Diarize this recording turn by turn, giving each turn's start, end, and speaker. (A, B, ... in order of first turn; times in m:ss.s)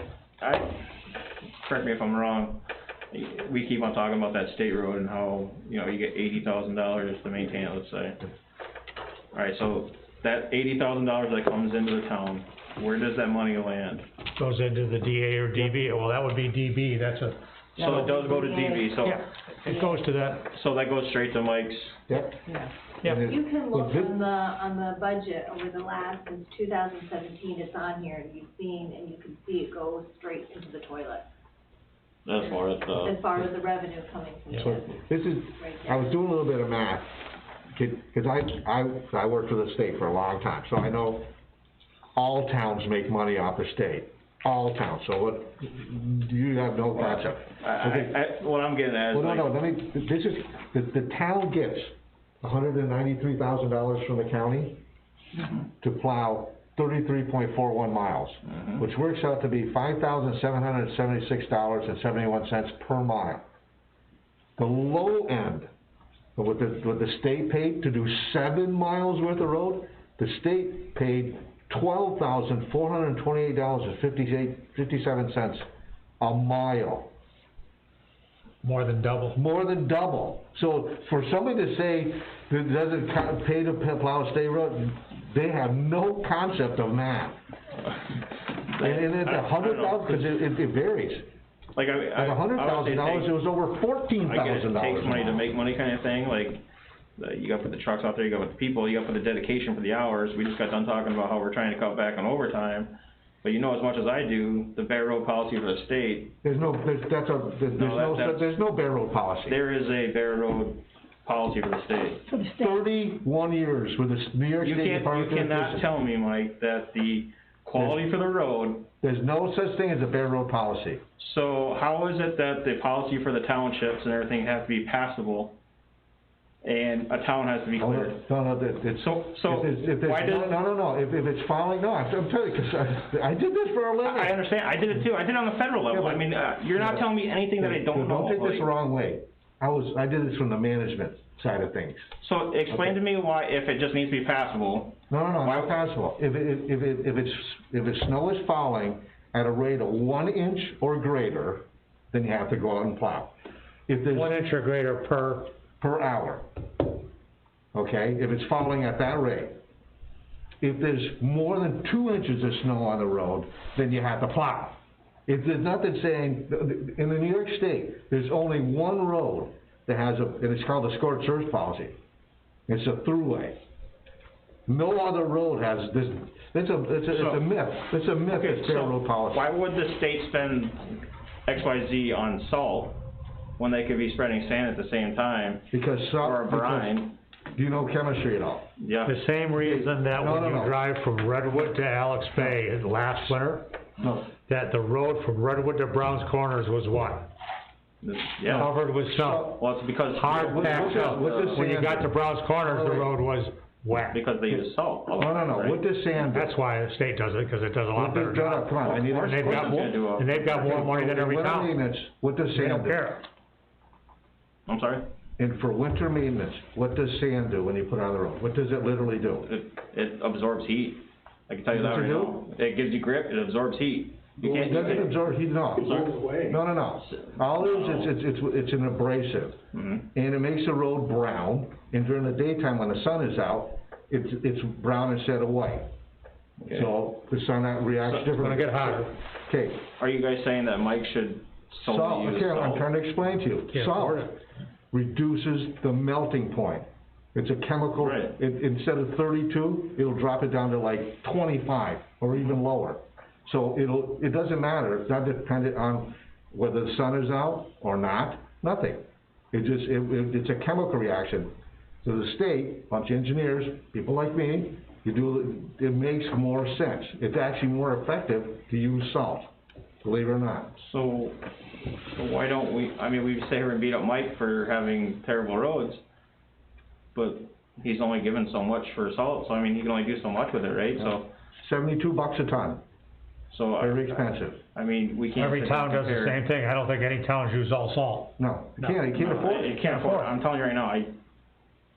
0:00.4-0:00.8 A
0:01.6-0:08.2 A
0:09.3-0:14.1 A
0:14.4-0:20.4 B
0:17.8-0:19.3 A
0:17.8-0:19.0 C
0:19.7-0:20.0 C
0:20.4-0:22.0 A
0:22.1-0:22.4 D
0:23.0-0:24.1 D
0:23.2-0:31.3 C
0:32.3-0:33.3 A
0:32.3-0:35.0 C
0:34.6-0:37.1 D
0:35.6-0:36.2 C
0:37.7-0:41.3 D
0:42.2-0:48.2 D
0:46.9-0:49.5 A
0:49.1-0:54.8 D
0:55.4-0:55.6 A
0:55.8-1:03.4 D
0:58.5-0:58.8 A
1:04.6-1:05.7 D
1:06.4-1:15.7 D
1:16.2-1:17.1 D
1:18.6-1:19.4 B
1:19.3-1:27.4 D
1:28.7-1:30.4 A
1:28.8-1:31.3 D
1:31.8-1:33.3 A
1:32.2-1:35.5 D
1:34.2-1:36.6 A
1:37.2-1:46.4 A
1:46.4-1:49.6 D
1:47.7-1:48.5 A
1:49.5-1:52.2 A
1:52.3-1:55.9 D
1:54.6-1:58.9 A
1:59.0-2:01.0 D
2:01.2-2:05.6 A
2:06.6-2:08.2 A
2:07.8-2:14.4 D
2:09.0-2:10.6 A
2:14.0-2:18.7 A
2:15.9-2:17.1 D
2:17.6-2:22.1 D
2:22.2-2:25.8 A
2:25.1-2:33.3 D
2:33.9-2:34.4 D
2:34.1-2:35.5 B
2:35.8-2:36.4 D
2:37.7-2:39.6 D
2:40.6-2:52.0 D
2:52.7-2:53.6 D
2:54.7-2:59.5 D
2:57.1-2:57.4 A
2:58.3-3:03.0 A
3:03.6-3:05.7 A
3:05.7-3:07.0 D
3:06.2-3:07.2 A
3:07.5-3:08.7 D
3:08.8-3:09.2 A
3:09.1-3:13.7 B
3:09.6-3:10.8 D
3:14.0-3:14.3 D
3:14.5-3:17.3 B
3:18.0-3:18.7 A
3:18.5-3:24.2 B
3:18.6-3:19.6 D
3:19.6-3:21.8 A
3:20.3-3:23.1 D
3:24.1-3:25.8 A
3:25.2-3:26.5 D
3:26.3-3:31.8 B
3:28.0-3:29.8 D
3:28.8-3:30.5 A
3:30.5-3:33.0 D
3:32.5-3:33.2 B
3:34.7-3:35.1 A
3:35.4-3:39.5 D
3:39.4-3:45.2 A
3:41.7-3:42.4 D
3:44.4-3:49.6 D
3:45.8-3:46.2 A
3:47.1-3:48.1 A
3:49.7-3:50.1 A
3:50.1-3:55.9 D
3:56.7-3:59.8 D
3:58.2-3:59.1 B
4:00.0-4:02.9 A
4:01.8-4:04.4 D
4:03.7-4:04.4 B
4:04.9-4:21.5 D
4:08.0-4:08.3 A
4:22.0-4:29.5 D
4:30.0-4:30.8 D
4:30.8-4:31.4 A
4:32.1-4:36.0 A
4:37.1-4:41.3 A
4:41.0-4:42.8 D
4:43.5-4:46.4 A
4:43.8-4:44.6 D
4:45.4-4:49.1 B
4:48.4-4:49.8 D
4:49.1-4:51.1 A
4:49.8-4:50.3 B